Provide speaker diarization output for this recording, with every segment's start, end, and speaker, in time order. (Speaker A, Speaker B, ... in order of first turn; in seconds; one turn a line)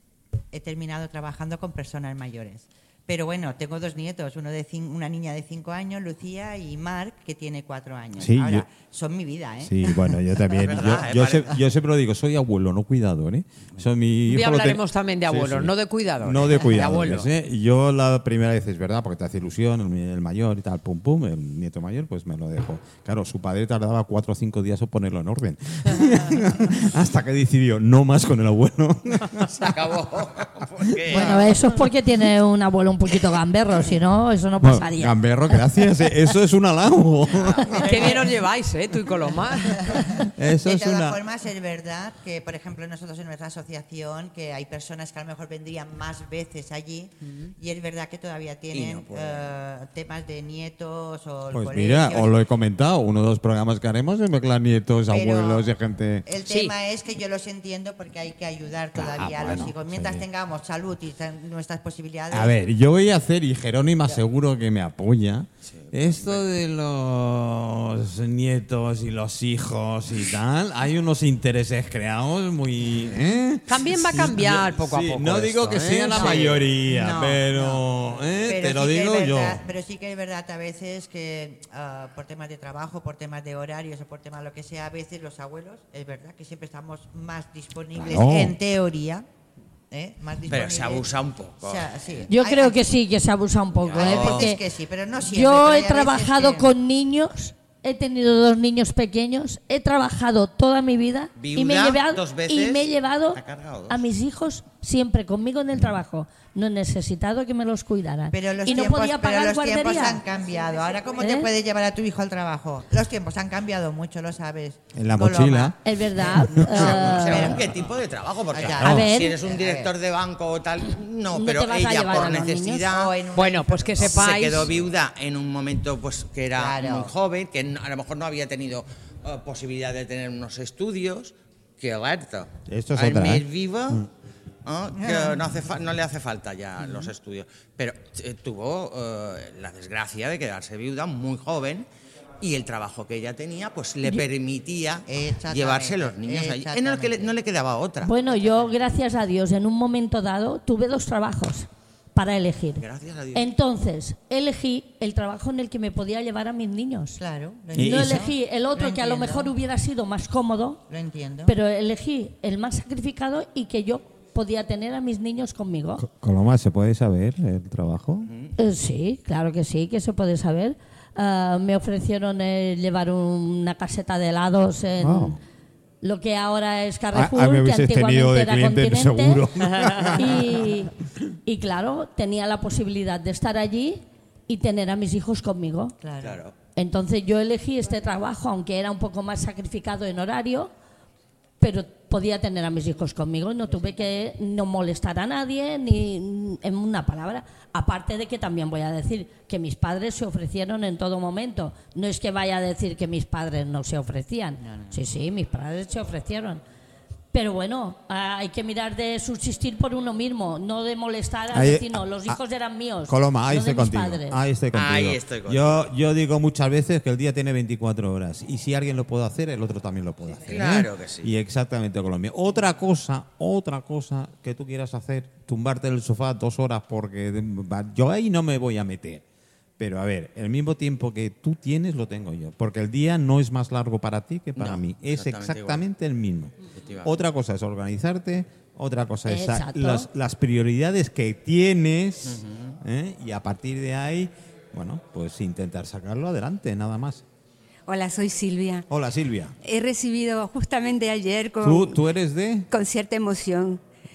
Speaker A: 0.5-10.2
Speaker B: 8.2-8.7
Speaker B: 9.6-29.7
Speaker C: 10.5-11.6
Speaker D: 14.3-17.3
Speaker C: 29.4-31.6
Speaker B: 30.9-31.4
Speaker E: 31.1-36.1
Speaker B: 34.6-37.9
Speaker C: 37.3-37.9
Speaker D: 37.8-39.9
Speaker A: 39.9-52.3
Speaker B: 40.2-41.2
Speaker C: 48.7-49.5
Speaker B: 51.5-56.2
Speaker A: 55.1-55.7
Speaker A: 56.2-62.6
Speaker D: 56.4-56.7
Speaker B: 59.0-60.2
Speaker B: 62.3-79.6
Speaker C: 65.7-66.4
Speaker D: 73.7-76.6
Speaker A: 76.1-77.8
Speaker A: 78.4-89.2
Speaker B: 87.9-88.6
Speaker A: 89.9-91.1
Speaker C: 90.5-91.9
Speaker A: 91.6-92.9
Speaker E: 92.3-94.6
Speaker C: 93.8-94.5
Speaker A: 93.9-96.7
Speaker E: 95.2-110.2
Speaker C: 101.4-104.0
Speaker A: 108.3-117.7
Speaker F: 110.3-111.2
Speaker E: 111.2-111.5
Speaker B: 114.9-115.8
Speaker E: 115.8-117.6
Speaker B: 116.4-116.7
Speaker C: 116.5-123.2
Speaker A: 118.5-119.9
Speaker E: 118.8-119.4
Speaker E: 121.3-122.9
Speaker A: 122.1-124.7
Speaker D: 123.3-124.7
Speaker C: 124.0-134.1
Speaker A: 126.5-127.1
Speaker B: 132.7-134.0
Speaker C: 134.6-141.9
Speaker A: 135.0-135.4
Speaker C: 142.4-148.1
Speaker A: 145.1-147.3
Speaker E: 148.0-157.2
Speaker C: 152.8-153.5
Speaker A: 157.2-159.5
Speaker E: 157.7-160.8
Speaker B: 157.8-158.2
Speaker A: 160.9-161.5
Speaker E: 161.4-166.0
Speaker B: 166.0-168.3
Speaker C: 168.3-168.5
Speaker E: 168.6-175.4
Speaker B: 175.0-175.4
Speaker E: 176.0-179.4
Speaker B: 177.1-180.6
Speaker E: 180.0-180.9
Speaker E: 181.4-185.9
Speaker A: 186.0-186.4
Speaker C: 186.2-186.5
Speaker E: 186.8-190.7
Speaker E: 191.6-206.6
Speaker A: 204.6-205.0
Speaker E: 207.3-214.4
Speaker B: 211.5-212.4
Speaker B: 213.1-229.2
Speaker C: 214.7-215.9
Speaker C: 220.4-221.3
Speaker B: 229.8-247.2
Speaker C: 234.6-235.8
Speaker C: 236.7-237.2
Speaker E: 239.2-240.1
Speaker C: 242.2-242.8
Speaker F: 247.9-248.9
Speaker B: 248.9-249.5
Speaker F: 249.6-252.1
Speaker B: 251.6-252.7
Speaker F: 252.7-253.8